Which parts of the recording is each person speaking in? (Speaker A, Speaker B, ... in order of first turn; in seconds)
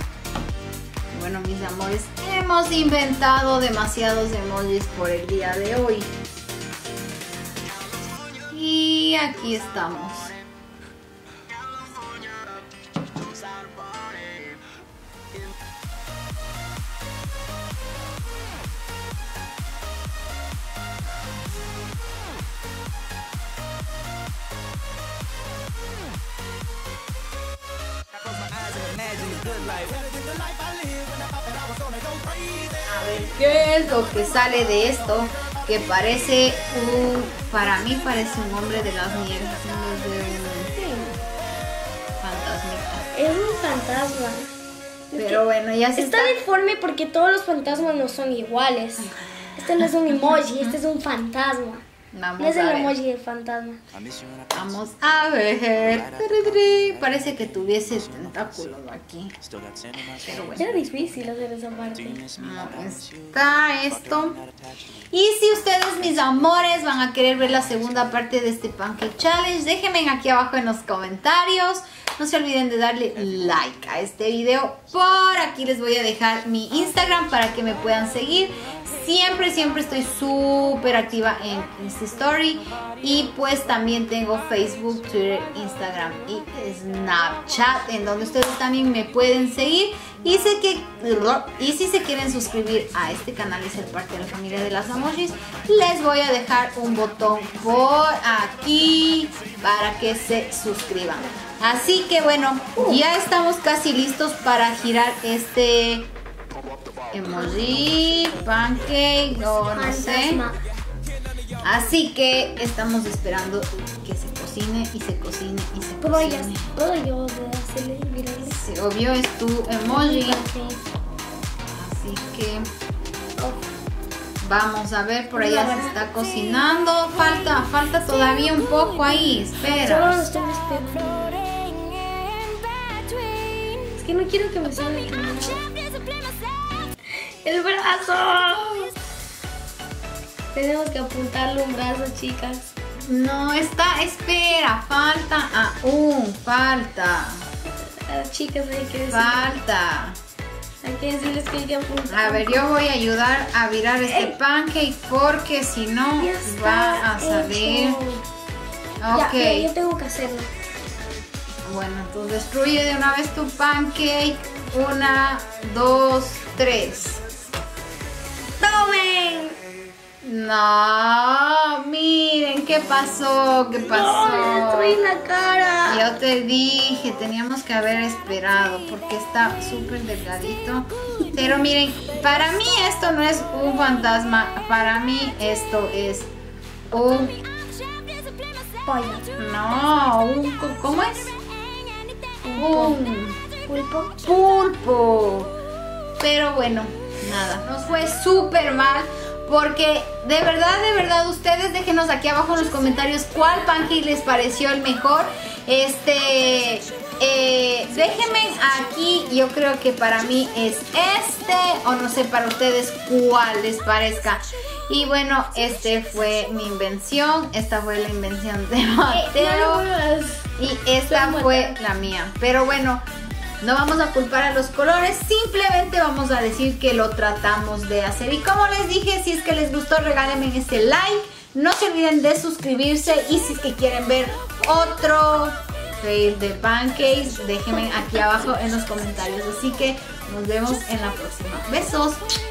Speaker A: 1.1-6.1, 8.4-10.3, 32.8-40.7, 42.2-43.1, 45.2-46.4, 52.1-53.0, 54.5-59.3, 60.2-60.7, 62.4-64.4, 65.1-106.1, 107.1-110.4, 111.6-116.7, 118.5-120.4, 121.7-122.7, 124.4-130.3, 143.1-147.5, 149.1-150.2, 152.1-158.0, 159.0-159.7, 161.7-167.2, 170.2-175.0, 175.9-186.3, 186.9-187.4, 189.4-191.3, 192.6-193.4, 194.2-195.5, 196.2-219.9, 220.6-223.0, 223.6-242.2
Speaker B: 40.8-41.2, 43.1-44.5, 45.1-45.4, 46.0-51.8, 52.4-53.8, 60.6-62.2, 109.7-110.6, 116.0-118.6, 119.9-120.8, 123.4-123.6, 125.3-126.5, 128.3-139.0, 140.5-142.6, 148.1-149.6, 150.8-152.7, 154.1-154.4, 156.2-158.2, 159.1-160.5, 168.6-169.6, 173.8-176.1, 188.8-189.3, 192.4-193.0, 193.7-194.2, 219.1-220.5, 221.1-221.8